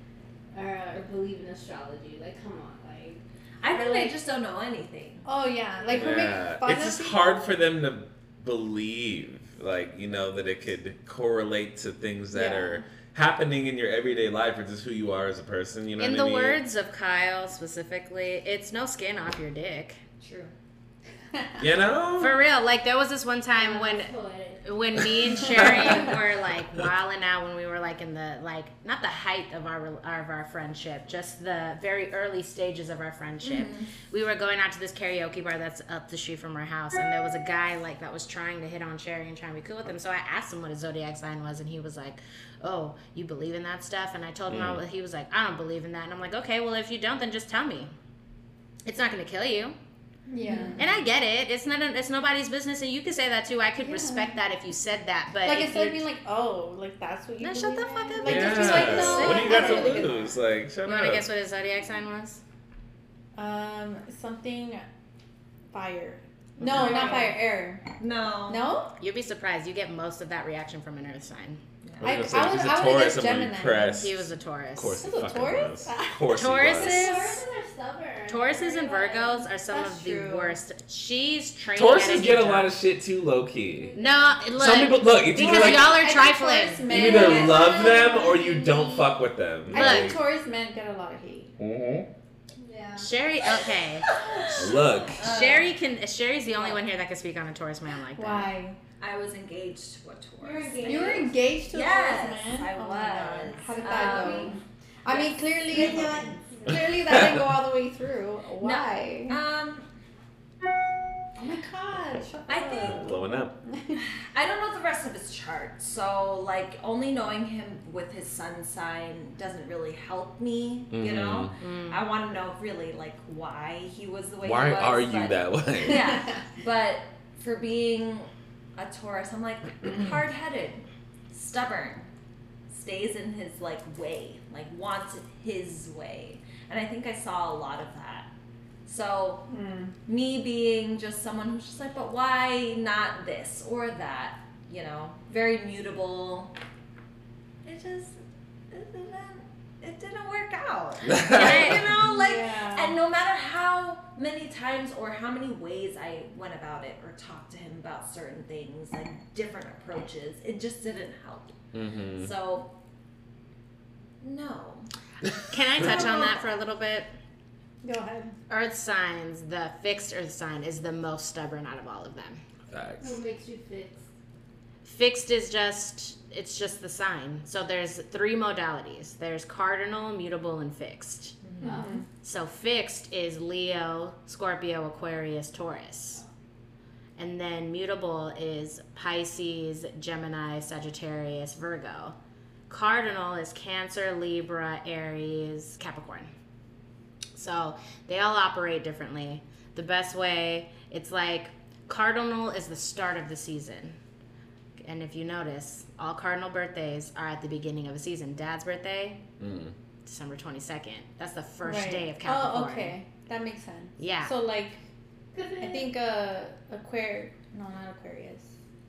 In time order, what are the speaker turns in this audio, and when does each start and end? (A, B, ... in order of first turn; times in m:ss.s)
0:00.5-0:04.1 A
0:03.6-0:05.2 B
0:05.2-0:07.4 C
0:05.9-0:16.6 D
0:12.3-0:12.8 C
0:16.0-0:20.0 E
0:20.2-0:20.5 B
0:21.3-0:21.6 C
0:21.6-0:22.4 D
0:22.2-0:47.9 E
0:23.5-0:24.6 A
0:33.4-0:33.9 B
0:44.5-0:44.8 D
0:48.8-0:49.8 E
0:50.3-0:50.8 C
0:50.5-0:50.8 B
0:50.8-0:56.0 E
0:53.8-0:54.3 C
0:55.4-1:00.2 C
0:57.4-1:00.0 E
0:58.2-1:01.2 D
0:59.1-1:00.1 B
0:59.1-0:59.9 A
1:00.8-1:02.4 E
1:03.3-1:04.8 C
1:05.7-1:07.8 C
1:06.6-1:07.4 B
1:06.7-1:07.2 A
1:08.0-1:08.6 B
1:08.5-1:08.9 C
1:09.0-1:11.6 E
1:11.8-1:12.2 B
1:12.0-1:17.1 D
1:12.0-1:14.1 C
1:14.0-1:15.0 E
1:15.0-1:16.3 C
1:16.3-1:17.4 E
1:16.8-1:19.5 A
1:18.3-1:22.7 E
1:19.7-1:20.6 C
1:21.7-1:23.9 D
1:23.8-1:24.4 A
1:23.9-1:27.1 E
1:24.5-1:26.0 D
1:25.3-1:29.1 C
1:26.9-1:30.2 D
1:27.0-1:28.5 A
1:29.7-1:31.5 C
1:29.7-1:30.2 E
1:31.6-1:32.1 D
1:32.6-1:33.1 A
1:33.0-1:34.1 E
1:34.2-1:35.7 B
1:34.5-1:35.2 D
1:35.2-1:38.5 E
1:36.6-1:36.8 B
1:38.2-1:38.8 C
1:39.0-1:46.8 B
1:40.4-1:41.3 A
1:40.8-1:49.4 C
1:43.8-1:44.6 A
1:45.7-1:46.8 A
1:46.7-1:47.4 D
1:48.6-1:49.9 B
1:51.4-1:54.0 C
1:52.5-1:53.1 B
1:52.8-1:53.5 D
1:54.0-2:12.1 B
2:00.9-2:01.5 D
2:01.6-2:02.0 E
2:04.4-2:06.2 D
2:12.7-2:18.3 B
2:18.8-2:19.5 B
2:19.5-2:19.9 C
2:20.0-2:26.5 B
2:27.6-2:28.2 B
2:28.7-2:41.6 B
2:31.1-2:31.8 D
2:31.3-2:32.0 E
2:31.5-2:33.0 C
2:41.7-2:42.3 D
2:42.1-2:42.7 B
2:44.2-2:44.9 B
2:45.5-2:47.1 E
2:45.8-2:46.4 C
2:47.8-2:48.4 C
2:48.5-2:52.4 E
2:52.7-2:53.2 D
2:53.0-2:54.0 A
2:54.8-3:01.4 E
3:01.4-3:01.7 B
3:01.6-3:02.0 A
3:01.6-3:02.0 C
3:02.2-3:06.2 E
3:07.2-3:12.2 E
3:12.7-3:16.3 E
3:17.3-3:24.0 E
3:24.8-3:29.2 E
3:29.4-3:29.7 D
3:30.0-3:33.0 E
3:31.6-3:34.8 C
3:34.0-3:34.3 E
3:35.3-3:35.9 A
3:35.6-3:38.5 C